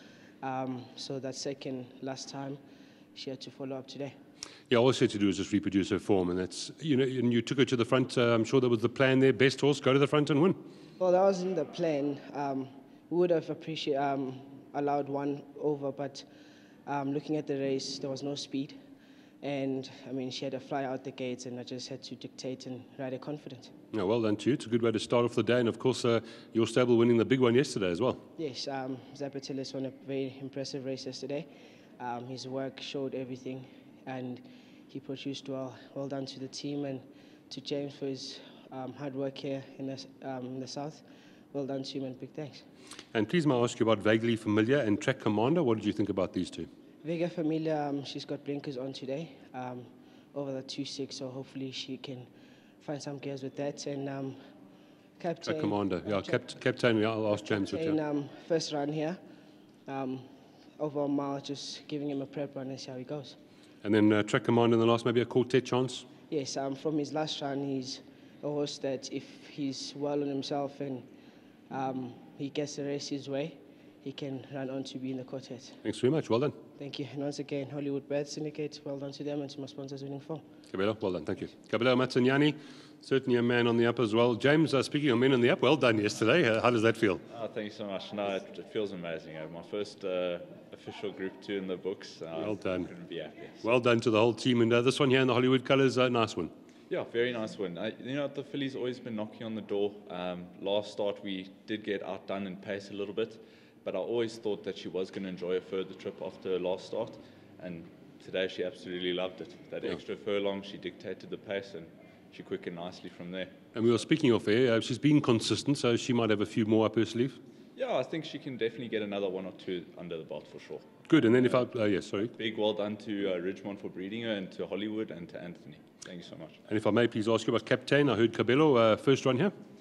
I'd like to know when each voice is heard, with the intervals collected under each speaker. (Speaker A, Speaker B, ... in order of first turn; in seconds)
Speaker A: 0.4-2.6, 3.1-4.1, 11.0-16.3, 16.9-18.8, 19.4-23.7, 28.4-42.6, 47.0-52.3, 52.8-54.4, 55.2-56.4, 57.5-59.2, 59.9-63.4, 66.3-71.1, 71.7-75.8, 76.8-80.4
Speaker B: 4.7-10.6, 23.9-28.2, 43.1-46.7, 55.5-58.0, 63.8-66.0, 75.8-76.5, 80.7-87.2, 92.3-92.9, 93.6-96.5, 113.7-117.4, 121.1-122.3, 126.7-129.5
Speaker C: 87.3-93.7, 96.9-114.0, 117.7-121.7, 122.2-126.6